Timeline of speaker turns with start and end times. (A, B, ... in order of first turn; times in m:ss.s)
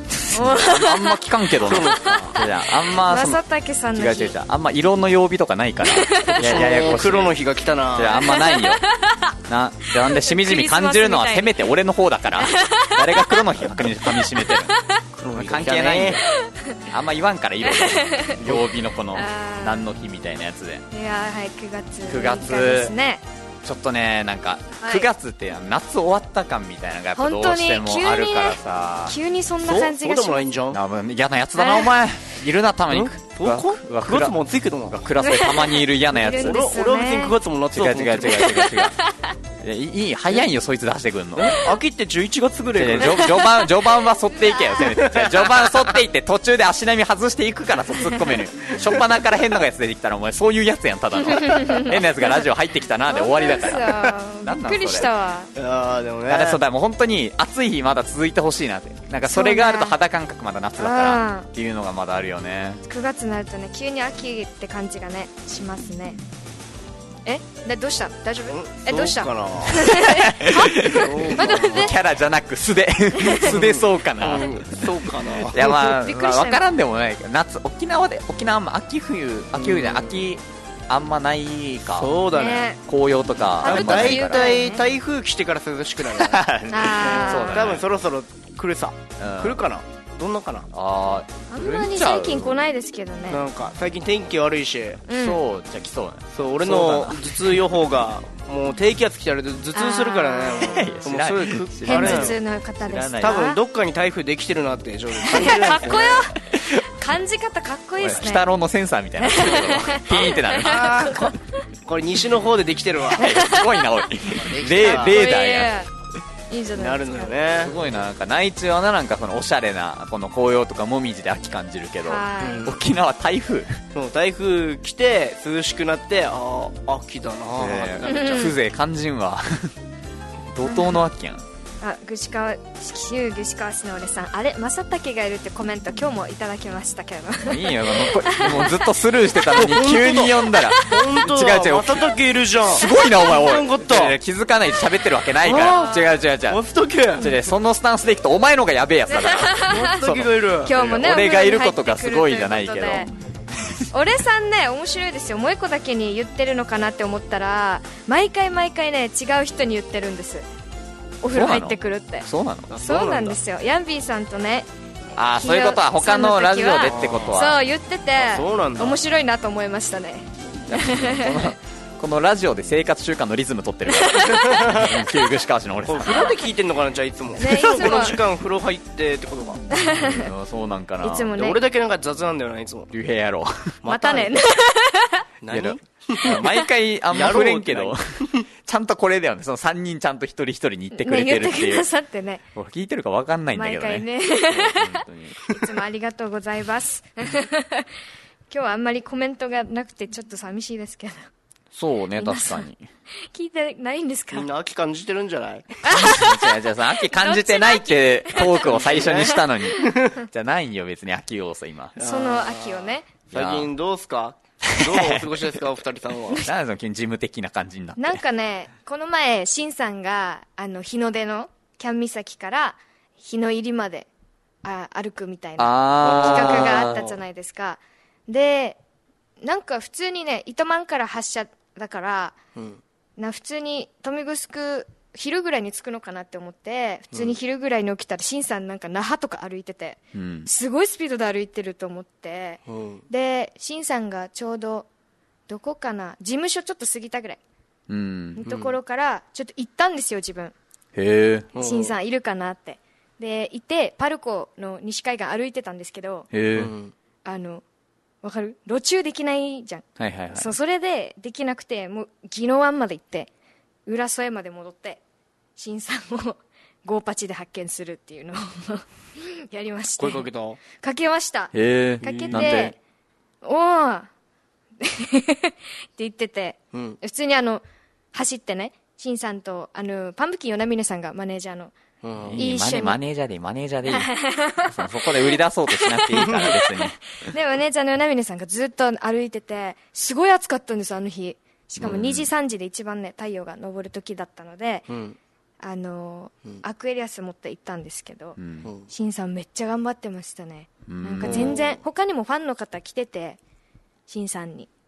0:00.2-0:03.4 A
0:00.3-0:01.2 B
0:01.6-0:02.4 C
0:03.0-0:04.3 B
0:03.9-0:07.4 A
0:05.9-0:06.4 B
0:06.4-0:08.2 C
0:07.9-0:08.8 A
0:08.2-0:09.3 B
0:09.4-0:14.7 A
0:09.9-0:11.5 B
0:12.4-0:13.4 B
0:14.1-0:15.0 B
0:15.2-0:16.2 C
0:15.3-0:16.2 A
0:16.4-0:16.8 B
0:16.9-0:20.9 A
0:17.7-0:18.4 B
0:19.2-0:19.9 B
0:20.9-0:23.2 B
0:22.0-0:22.9 A
0:23.6-0:29.2 A
0:24.8-0:25.1 B
0:27.2-0:30.5 B
0:29.6-0:30.8 C
0:30.7-0:36.6 A
0:31.6-0:31.9 B
0:32.9-0:35.0 C
0:35.2-0:37.4 B
0:36.4-0:38.9 C
0:37.7-0:39.0 A
0:39.6-0:41.6 A
0:41.4-0:43.5 C
0:42.7-0:55.1 A
0:44.8-0:45.9 C
0:51.4-0:52.0 B
0:53.1-0:55.5 B
0:55.6-0:56.6 C
0:56.3-1:02.8 A
0:59.3-1:00.0 B
1:00.8-1:01.5 B
1:02.9-1:06.2 B
1:07.2-1:12.0 B
1:08.5-1:09.8 C
1:09.8-1:22.1 A
1:10.9-1:12.0 C
1:13.2-1:13.5 B
1:13.4-1:15.6 C
1:15.5-1:16.6 B
1:19.6-1:20.3 C
1:21.9-1:22.7 C
1:22.4-1:22.8 B
1:22.8-1:24.6 A
1:23.6-1:24.8 B
1:23.6-1:26.4 C
1:26.1-1:27.9 A
1:26.7-1:27.8 B
1:27.0-1:30.7 C
1:29.2-1:29.6 A
1:30.7-1:32.6 A
1:31.5-1:33.4 B
1:33.3-1:35.1 C
1:35.1-1:35.4 B
1:35.1-1:37.6 A
1:36.3-1:42.4 C
1:39.8-1:41.0 B
1:40.6-1:43.4 A
1:41.9-1:43.6 B
1:43.2-1:46.2 C
1:45.3-1:48.5 B
1:46.5-1:46.8 A
1:48.0-1:51.3 A
1:49.2-1:51.3 B
1:49.6-1:50.0 C
1:50.6-1:53.3 C
1:53.1-1:55.8 A
1:53.2-1:53.6 B
1:54.3-1:55.2 C
1:54.9-1:55.9 B
1:56.5-1:57.4 B
1:56.8-1:57.7 C
1:57.6-2:03.8 A
2:02.0-2:02.7 B
2:02.4-2:02.8 C
2:03.9-2:08.5 C
2:07.6-2:09.7 A
2:08.1-2:08.5 B
2:10.5-2:11.4 A
2:10.6-2:11.0 B
2:11.8-2:18.8 B
2:17.4-2:22.1 A
2:19.5-2:24.2 C
2:22.7-2:26.6 A
2:25.4-2:27.4 C
2:25.6-2:26.0 B
2:27.2-2:33.8 A
2:29.1-2:33.1 B
2:29.7-2:30.7 C
2:33.9-2:40.4 B
2:41.2-2:42.3 B
2:41.3-2:42.7 A
2:42.7-2:43.4 C
2:42.8-2:44.7 B
2:45.2-2:47.6 A
2:45.4-2:51.5 B
2:46.8-2:47.4 C
2:48.2-2:49.0 C
2:50.7-2:56.4 A
2:54.2-2:54.6 B
2:54.3-2:55.0 C
2:55.9-2:59.6 C
2:57.4-2:58.2 B
2:59.7-3:00.3 B
3:00.0-3:01.3 A
3:01.0-3:01.6 B
3:01.3-3:02.9 C
3:02.9-3:03.7 A
3:03.8-3:04.4 C
3:03.9-3:05.2 B
3:05.4-3:06.5 C
3:05.5-3:11.9 A
3:07.1-3:08.4 C
3:10.9-3:12.4 B
3:12.5-3:15.4 A
3:13.6-3:17.9 B
3:18.5-3:21.3 B
3:21.7-3:22.8 A
3:22.2-3:22.6 B
3:23.3-3:24.5 B
3:24.3-3:25.8 C
3:25.8-3:29.9 B
3:25.9-3:32.0 A
3:28.7-3:29.3 C
3:29.8-3:30.2 C
3:32.0-3:36.4 C
3:32.0-3:33.1 B
3:33.3-3:33.7 A
3:34.7-3:35.5 A
3:36.4-3:38.2 A
3:38.0-3:44.1 B
3:44.6-3:48.8 B
3:45.6-3:47.0 A
3:46.0-3:47.2 C
3:49.4-3:52.4 B
3:52.6-3:52.8 C
3:53.2-4:04.9 B
3:57.1-3:57.4 C
4:00.1-4:00.5 A
4:02.7-4:03.1 C
4:05.5-4:07.4 B
4:07.9-4:08.4 A
4:08.4-4:10.5 B
4:08.5-4:08.8 C
4:11.0-4:11.5 A
4:11.5-4:12.0 C
4:11.6-4:16.3 B
4:16.3-4:16.7 A
4:16.6-4:16.9 C
4:17.2-4:17.6 B
4:18.2-4:23.3 B
4:20.0-4:20.5 A
4:23.9-4:25.0 B
4:25.6-4:32.8 B
4:30.0-4:30.6 C
4:31.5-4:32.7 A
4:32.0-4:32.6 C
4:33.4-4:34.1 B
4:34.8-4:41.8 B
4:36.7-4:37.0 C
4:42.0-4:42.4 C
4:42.2-4:47.3 A
4:42.4-4:43.0 B
4:43.9-4:44.7 B
4:46.1-4:46.6 C
4:47.2-4:54.9 B
4:51.8-4:52.3 A
4:54.9-4:55.2 C
4:55.6-4:58.4 B
4:58.4-4:58.7 A
4:58.6-4:58.9 C
4:58.9-5:03.4 B
5:00.9-5:01.6 A
5:01.2-5:01.8 C
5:04.1-5:04.7 B